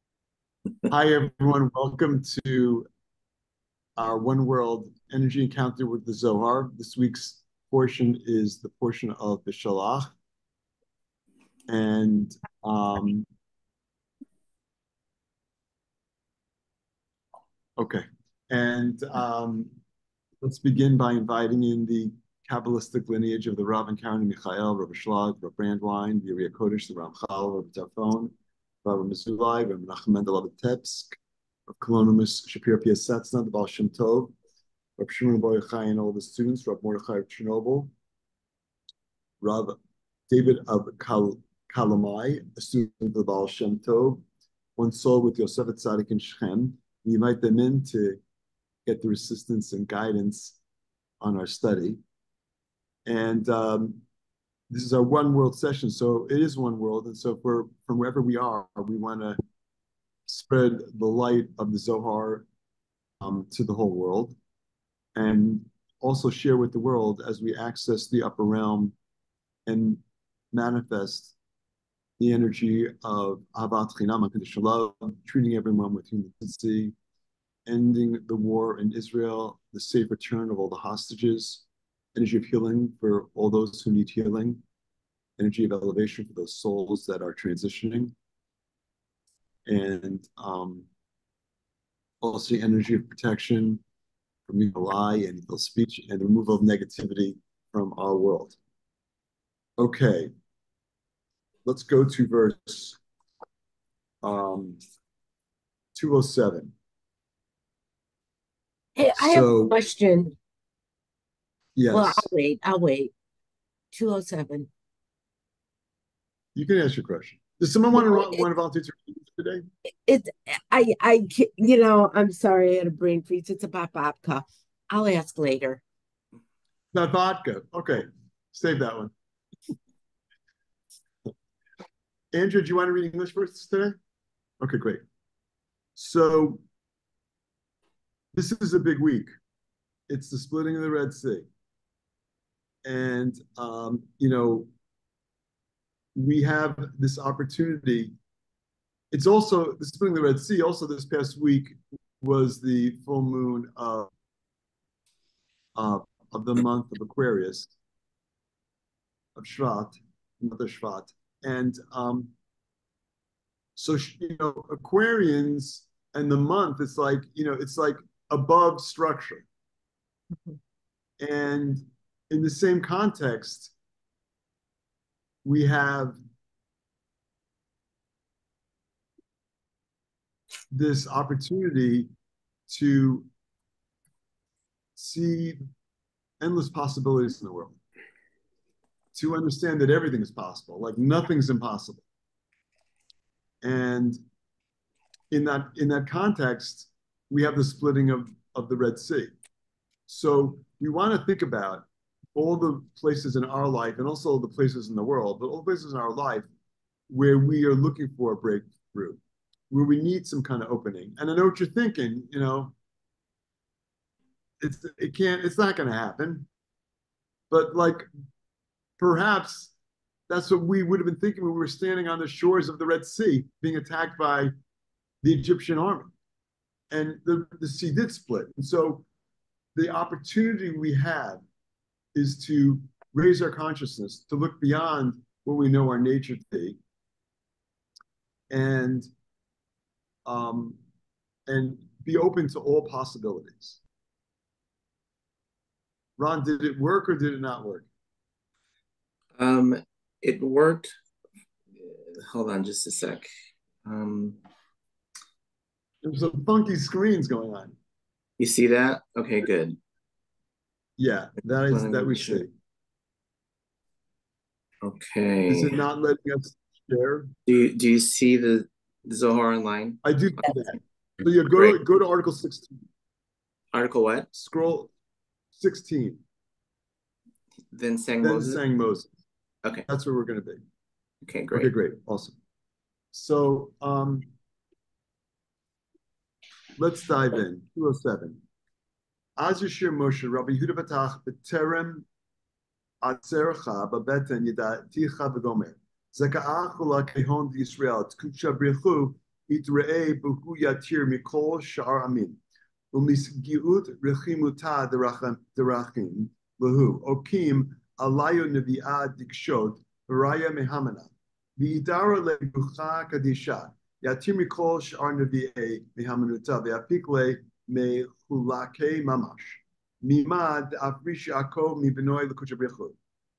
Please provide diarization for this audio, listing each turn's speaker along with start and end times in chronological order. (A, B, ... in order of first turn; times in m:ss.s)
0:00.9-0:02.9 A
0:04.0-0:10.1 A
0:11.7-0:13.3 A
0:17.8-0:19.7 A
0:20.4-0:31.2 A
0:31.7-0:34.3 A
0:35.0-0:37.9 A
0:39.4-0:39.8 A
0:40.3-0:44.2 A
0:44.8-0:48.2 A
0:48.8-0:50.6 A
0:51.2-0:52.0 A
0:53.0-0:54.0 A
0:54.7-0:59.4 A
1:00.3-1:02.5 A
1:03.2-1:04.4 A
1:05.1-1:08.9 A
1:09.6-1:11.3 A
1:12.2-1:16.9 A
1:17.6-1:24.6 A
1:25.4-1:28.1 A
1:29.6-1:30.9 A
1:32.2-1:33.8 A
1:34.5-1:38.6 A
1:39.8-1:40.3 A
1:41.6-1:43.0 A
1:44.2-1:44.8 A
1:45.9-1:46.7 A
1:49.0-1:50.3 B
1:49.2-1:49.7 A
1:51.7-1:52.2 A
1:51.9-1:53.1 B
1:53.9-1:54.7 B
1:56.5-1:59.6 A
2:00.0-2:05.8 B
2:06.9-2:09.1 A
2:12.3-2:14.0 A
2:14.6-2:15.0 A
2:16.0-2:16.6 A
2:18.3-2:19.3 A
2:20.1-2:21.5 A
2:22.8-2:24.7 A
2:26.1-2:28.1 A
2:29.1-2:34.1 A
2:35.7-2:37.7 A
2:39.4-2:42.3 A
2:43.8-2:49.4 A
2:51.2-2:53.7 A
2:55.4-2:56.2 A
3:00.7-3:02.1 A
3:02.7-3:03.3 A
3:05.0-3:05.6 A
3:06.4-3:07.8 A
3:09.1-3:12.0 A
3:13.6-3:14.2 A
3:15.3-3:19.3 A
3:20.1-3:26.5 A
3:27.1-3:29.2 A
3:29.7-3:32.7 A
3:34.6-3:36.5 A
3:37.5-3:38.1 A
3:39.0-3:39.7 A
3:40.3-3:44.5 A
3:45.2-3:46.1 A
3:46.9-3:49.0 A
3:49.7-3:51.4 A
3:52.1-3:56.8 A
3:58.5-3:59.1 A
4:00.2-4:00.8 A
4:01.5-4:03.8 A
4:06.2-4:07.9 A
4:09.4-4:10.9 C
4:11.7-4:13.3 C
4:13.8-4:14.4 C
4:16.0-4:17.8 A
4:18.4-4:19.8 C
4:21.0-4:22.5 A
4:21.7-4:22.4 C
4:24.8-4:25.8 C
4:25.5-4:27.3 A
4:27.4-4:30.0 C
4:30.0-4:32.7 A
4:31.5-4:31.8 C
4:33.7-4:34.3 C
4:34.3-4:34.9 A
4:35.5-4:36.2 A
4:37.7-4:38.6 C
4:38.2-4:39.1 A
4:39.9-4:40.6 A
4:41.2-4:41.7 C
4:41.5-4:42.4 A
4:43.1-4:44.3 A
4:46.8-4:48.4 A
4:49.4-4:52.0 A
4:53.0-5:02.4 A
5:02.9-5:23.0 A